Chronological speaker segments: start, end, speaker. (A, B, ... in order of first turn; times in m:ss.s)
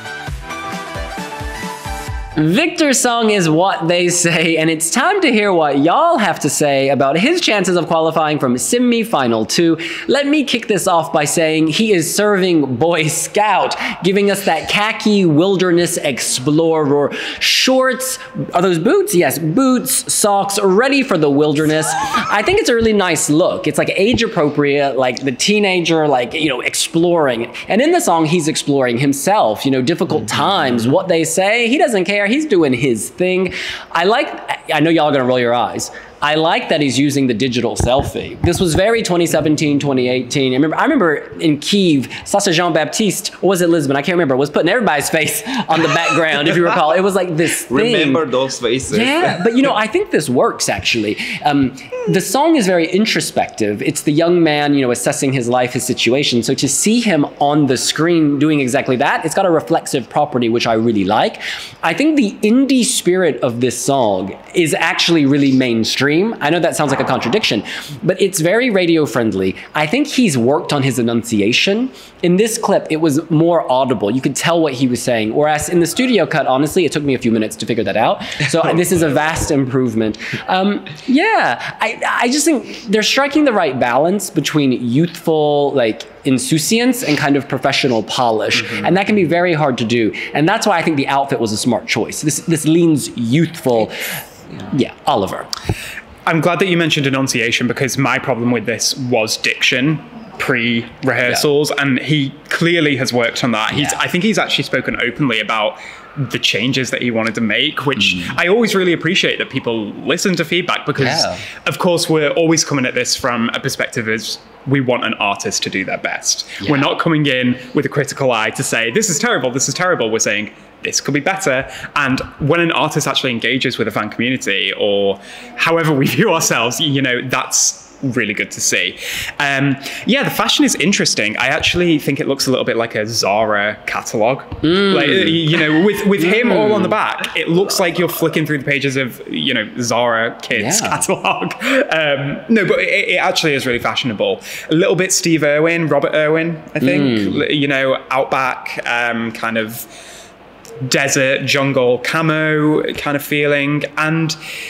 0:02.4-0:48.2 A
0:47.6-0:49.6 B
0:48.9-1:34.1 A
1:28.6-1:28.9 C
1:34.7-1:35.5 A
1:36.3-2:29.9 C
1:43.7-1:44.0 A
1:48.0-1:48.4 A
1:51.0-1:51.4 A
1:56.6-1:56.9 A
2:14.6-2:15.4 A
2:16.2-2:17.0 A
2:20.6-2:21.0 A
2:26.8-2:27.4 A
2:30.8-2:34.4 C